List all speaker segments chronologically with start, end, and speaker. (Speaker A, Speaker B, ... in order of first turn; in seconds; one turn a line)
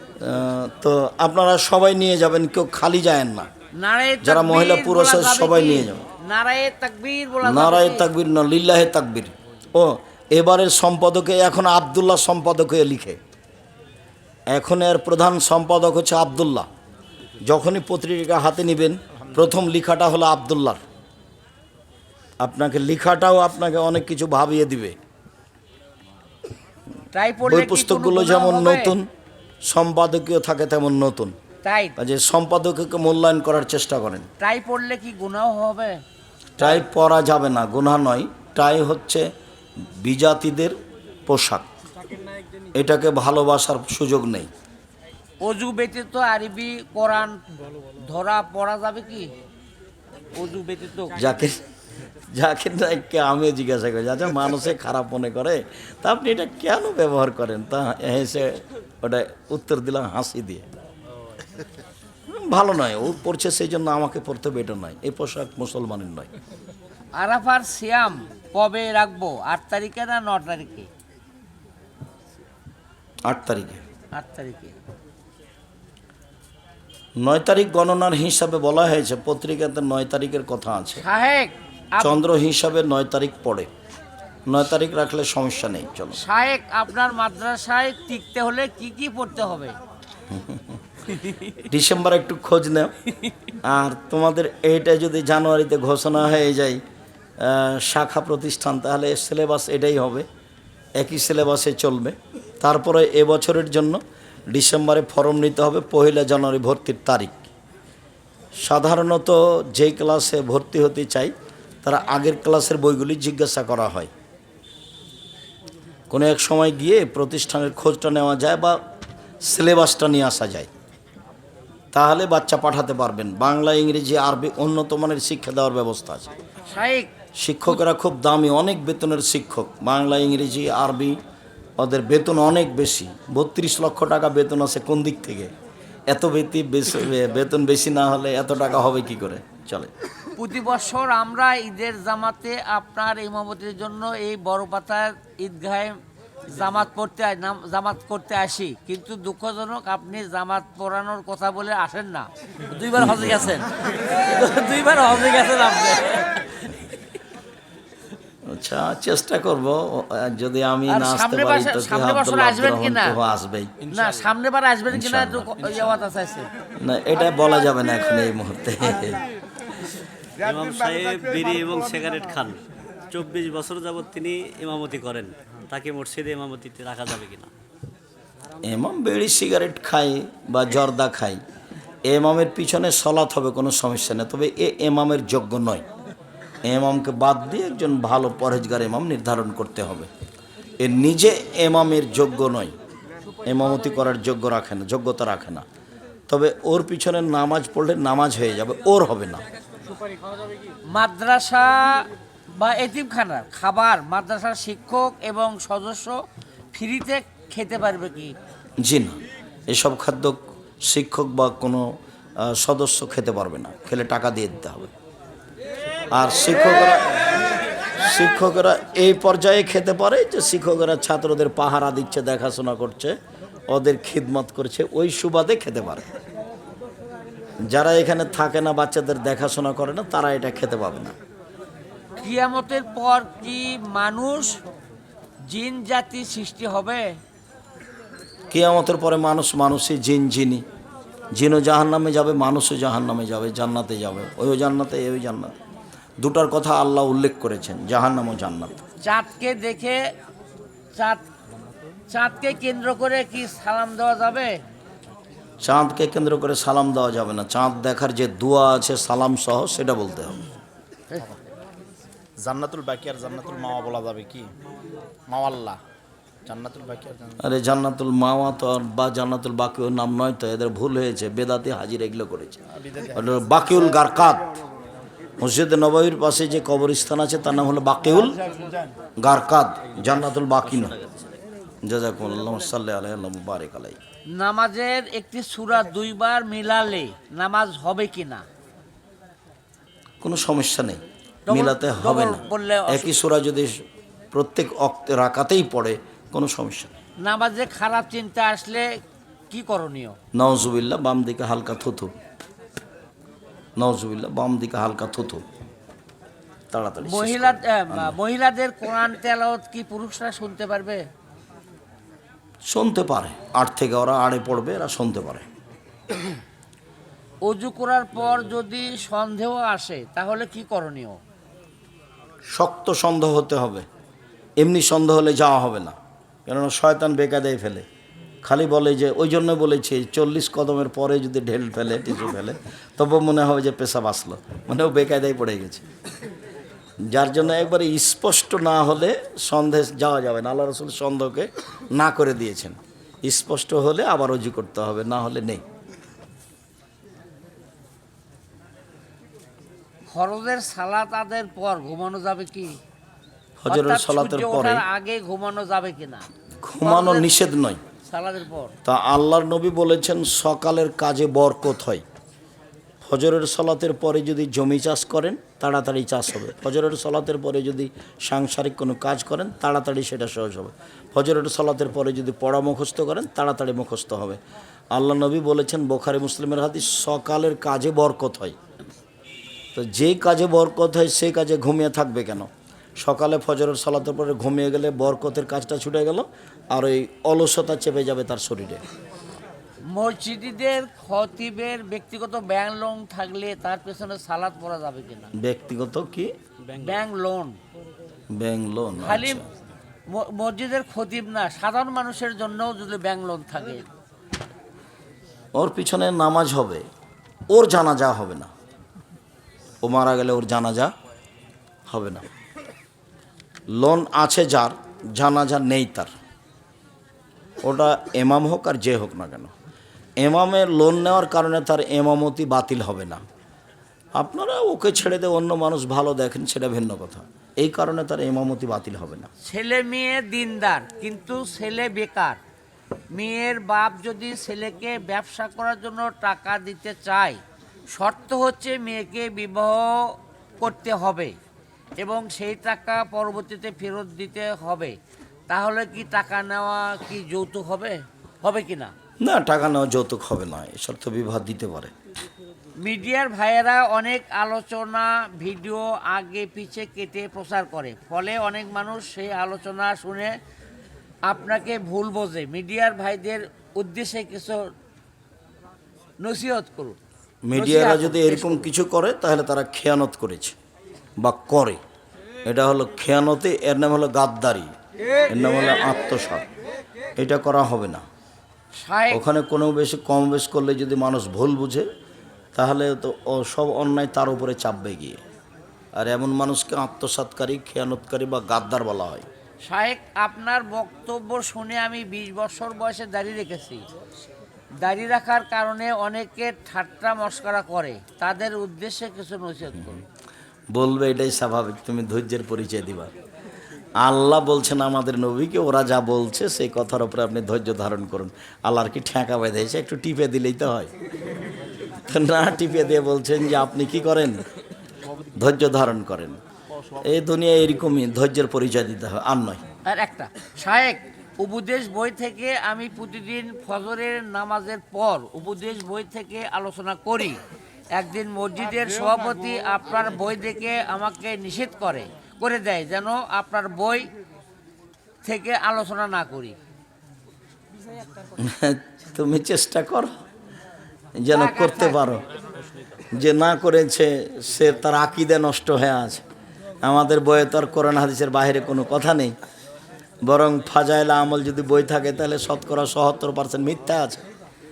Speaker A: 0.2-3.5
Speaker B: 3.8-8.1
Speaker A: 4.2-6.0
Speaker A: 7.4-13.2
Speaker A: 14.5-16.7
Speaker A: 17.4-20.8
Speaker A: 22.4-24.9
Speaker B: 27.1-28.9
Speaker A: 27.4-29.1
Speaker A: 29.6-31.3
Speaker B: 31.6-31.9
Speaker A: 32.0-34.3
Speaker B: 34.4-36.0
Speaker A: 36.6-39.3
Speaker A: 39.8-40.8
Speaker A: 41.3-41.7
Speaker A: 42.7-44.5
Speaker B: 45.4-47.4
Speaker B: 47.9-49.3
Speaker B: 50.3-51.2
Speaker A: 51.1-51.6
Speaker A: 52.3-60.7
Speaker A: 62.3-66.3
Speaker B: 67.1-70.9
Speaker A: 73.2-73.8
Speaker B: 74.1-74.8
Speaker A: 77.2-81.0
Speaker B: 81.0-82.2
Speaker A: 82.0-83.7
Speaker A: 84.5-86.2
Speaker B: 86.1-89.8
Speaker A: 90.3-90.7
Speaker A: 91.5-92.9
Speaker A: 93.6-96.8
Speaker A: 97.4-100.2
Speaker A: 101.0-104.0
Speaker A: 104.5-107.5
Speaker A: 108.6-114.1
Speaker A: 116.1-118.8
Speaker A: 119.4-120.7
Speaker A: 121.9-126.3
Speaker B: 126.7-127.1
Speaker A: 127.4-131.2
Speaker A: 131.8-135.5
Speaker A: 136.1-139.9
Speaker B: 140.3-146.0
Speaker B: 146.5-156.6
Speaker A: 153.0-153.6
Speaker A: 158.4-163.8
Speaker B: 160.9-163.2
Speaker B: 163.8-166.5
Speaker A: 164.9-165.6
Speaker A: 166.8-169.2
Speaker C: 170.4-177.5
Speaker A: 178.6-181.4
Speaker A: 182.1-185.8
Speaker A: 186.6-190.1
Speaker A: 190.8-192.7
Speaker A: 193.4-195.6
Speaker A: 196.3-199.4
Speaker B: 200.9-206.2
Speaker B: 206.7-208.3
Speaker A: 208.8-209.2
Speaker A: 209.7-211.9
Speaker A: 212.4-214.9
Speaker A: 216.1-217.2
Speaker A: 218.0-223.1
Speaker A: 223.7-226.0
Speaker A: 227.6-231.1
Speaker B: 232.2-234.6
Speaker B: 235.4-237.2
Speaker A: 238.5-240.6
Speaker A: 241.3-245.5
Speaker A: 246.2-248.8
Speaker B: 249.0-250.0
Speaker B: 250.9-251.2
Speaker B: 252.1-254.6
Speaker A: 255.6-260.4
Speaker D: 262.4-264.5
Speaker D: 265.3-265.8
Speaker D: 266.4-267.4
Speaker A: 267.4-274.5
Speaker A: 275.4-278.4
Speaker A: 279.2-280.9
Speaker C: 280.6-281.4
Speaker A: 281.8-284.0
Speaker B: 284.3-288.4
Speaker A: 290.2-293.7
Speaker B: 291.5-293.1
Speaker A: 294.3-296.9
Speaker B: 297.2-298.9
Speaker B: 299.5-300.2
Speaker A: 300.3-302.1
Speaker A: 303.8-305.4
Speaker A: 306.7-308.1
Speaker B: 307.0-311.0
Speaker A: 312.6-315.5
Speaker B: 317.4-321.2
Speaker A: 322.5-323.9
Speaker A: 324.6-327.8
Speaker A: 328.4-335.8
Speaker A: 337.1-345.6
Speaker B: 350.1-352.8
Speaker A: 353.6-354.8
Speaker B: 353.7-356.2
Speaker A: 356.6-357.8
Speaker B: 356.8-357.3
Speaker B: 358.0-358.7
Speaker A: 358.8-362.0
Speaker A: 363.0-374.4
Speaker A: 374.9-378.6
Speaker A: 379.7-388.8
Speaker B: 389.9-395.3
Speaker A: 395.4-396.3
Speaker C: 396.7-397.0
Speaker B: 396.8-397.6
Speaker A: 398.3-399.4
Speaker B: 399.0-399.4
Speaker B: 400.1-403.8
Speaker A: 405.5-406.9
Speaker A: 407.5-408.5
Speaker A: 409.8-410.9
Speaker A: 411.9-412.3
Speaker A: 413.7-416.1
Speaker A: 417.6-419.5
Speaker A: 420.2-423.2
Speaker A: 424.1-429.3
Speaker B: 429.4-432.4
Speaker B: 433.1-437.4
Speaker B: 437.9-441.4
Speaker B: 442.0-444.9
Speaker B: 445.5-448.9
Speaker A: 449.2-451.9
Speaker B: 452.8-460.4
Speaker B: 461.3-464.7
Speaker B: 466.2-467.0
Speaker A: 467.4-470.6
Speaker B: 467.5-468.7
Speaker A: 471.2-471.8
Speaker A: 472.4-474.7
Speaker A: 475.3-476.5
Speaker A: 477.2-478.0
Speaker B: 478.8-479.2
Speaker A: 479.1-481.9
Speaker A: 482.5-485.2
Speaker A: 485.9-489.2
Speaker B: 489.6-493.8
Speaker B: 494.8-500.0
Speaker A: 500.7-503.1
Speaker A: 504.0-510.9
Speaker A: 511.9-514.4
Speaker A: 515.3-516.4
Speaker A: 516.9-519.6
Speaker B: 519.9-527.4
Speaker B: 527.9-534.1
Speaker B: 535.2-536.6
Speaker A: 538.4-540.1
Speaker A: 541.2-542.2
Speaker B: 541.3-542.0
Speaker A: 543.1-546.2
Speaker A: 546.8-549.3
Speaker A: 550.2-554.2